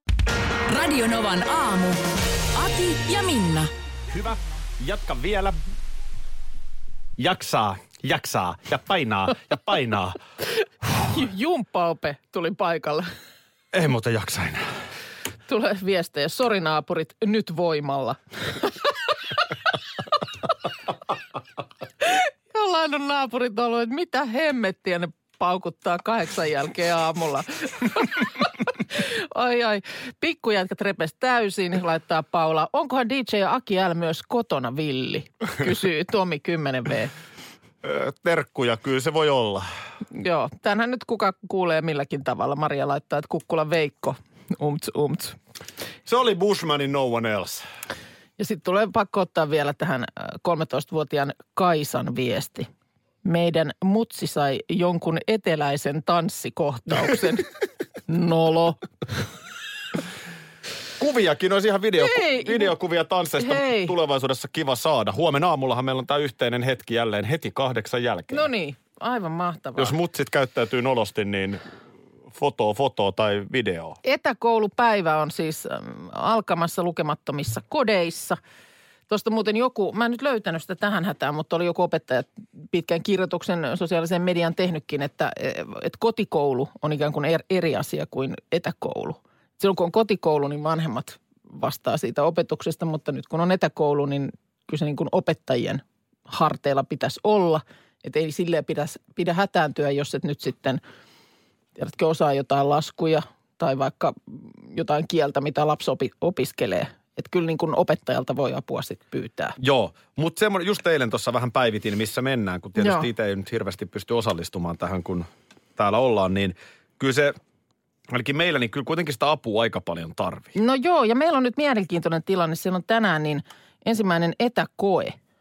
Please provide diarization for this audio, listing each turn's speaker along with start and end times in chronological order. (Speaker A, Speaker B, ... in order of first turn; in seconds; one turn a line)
Speaker A: 0.7-2.0
Speaker A: 2.5-3.7
Speaker B: 4.1-5.6
Speaker B: 7.2-10.2
Speaker C: 11.1-13.1
Speaker B: 13.7-14.7
Speaker C: 15.5-18.9
Speaker C: 22.0-37.1
Speaker B: 37.8-39.7
Speaker C: 40.1-45.4
Speaker B: 46.1-47.7
Speaker C: 48.4-52.7
Speaker C: 53.2-57.5
Speaker C: 58.1-59.2
Speaker B: 61.0-68.5
Speaker C: 62.0-62.7
Speaker C: 63.4-64.0
Speaker C: 68.3-70.0
Speaker B: 69.8-71.6
Speaker B: 72.3-74.0
Speaker C: 74.0-78.4
Speaker C: 79.1-100.8
Speaker C: 101.8-109.6
Speaker B: 109.6-117.4
Speaker C: 112.8-113.1
Speaker B: 118.1-120.5
Speaker C: 120.5-125.2